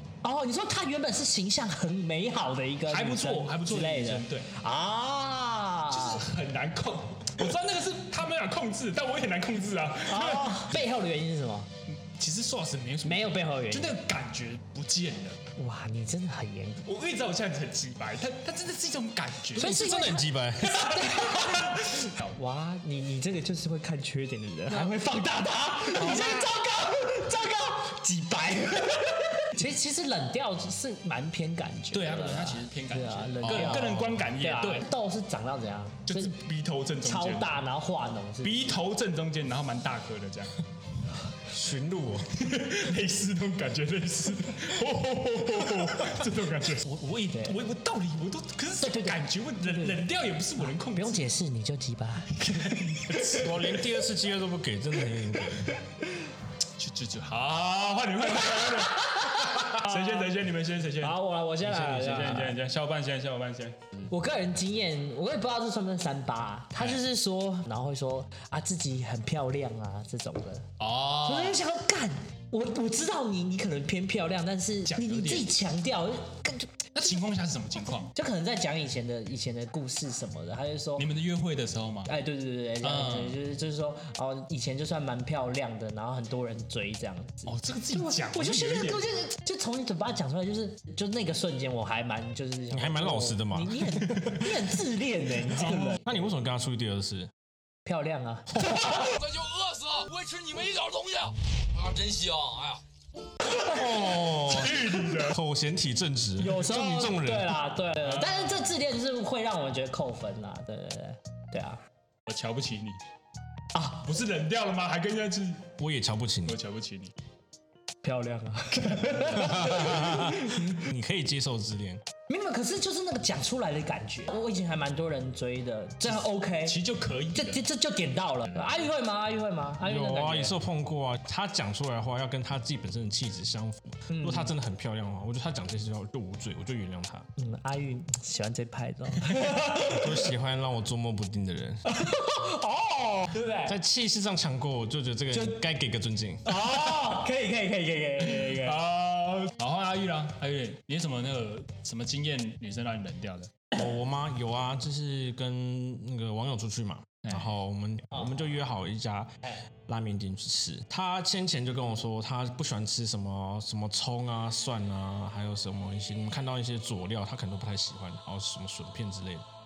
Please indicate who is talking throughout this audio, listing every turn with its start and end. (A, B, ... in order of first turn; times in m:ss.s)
0:00.2-0:06.2 A
0:02.9-0:04.5 B
0:05.9-0:10.8 B
0:10.1-0:11.7 A
0:11.9-0:15.4 B
0:13.0-0:13.9 A
0:15.6-0:16.9 A
0:16.8-0:19.8 B
0:19.5-0:20.9 C
0:19.6-0:21.8 A
0:20.8-0:22.4 B
0:22.4-0:36.4 A
0:25.9-0:26.5 B
0:31.9-0:34.9 B
0:36.1-0:37.5 B
0:37.0-0:38.8 A
0:38.4-0:40.5 B
0:41.5-0:42.4 C
0:42.4-0:51.2 B
0:47.3-0:47.6 A
0:48.8-0:50.0 A
0:50.6-0:53.3 A
0:52.4-0:53.4 B
0:53.3-0:55.7 C
0:56.8-1:03.8 B
0:58.2-1:00.3 A
1:01.0-1:02.6 A
1:04.1-1:10.7 A
1:10.8-1:11.6 B
1:11.2-1:16.9 A
1:14.9-1:15.5 B
1:16.9-1:18.1 B
1:18.1-1:21.0 A
1:21.0-1:22.1 B
1:22.1-1:36.2 A
1:22.8-1:23.4 B
1:27.5-1:29.1 B
1:32.7-1:34.3 C
1:34.0-1:34.5 B
1:35.4-1:36.0 B
1:36.0-1:37.3 C
1:37.8-1:39.2 A
1:38.8-1:42.8 D
1:43.4-1:43.9 A
1:43.5-1:47.6 C
1:44.4-1:45.4 B
1:46.4-1:51.8 A
1:48.0-1:48.6 B
1:52.3-1:53.0 B
1:53.7-1:54.1 A
1:54.0-1:55.7 B
1:55.8-1:56.6 C
1:56.4-1:57.1 B
1:58.0-2:00.8 A
1:59.4-2:02.0 C
2:02.3-2:06.8 A
2:06.0-2:07.6 B
2:07.3-2:10.6 A
2:08.5-2:08.9 B
2:09.8-2:17.2 C
2:14.1-2:14.5 A
2:17.4-2:20.3 A
2:19.8-2:21.8 C
2:21.8-2:23.7 A
2:23.6-2:26.6 C
2:25.3-2:25.6 A
2:26.4-2:28.8 A
2:28.2-2:33.6 B
2:33.7-2:39.3 C
2:37.2-2:37.5 B
2:38.1-2:38.5 A
2:39.9-2:49.4 C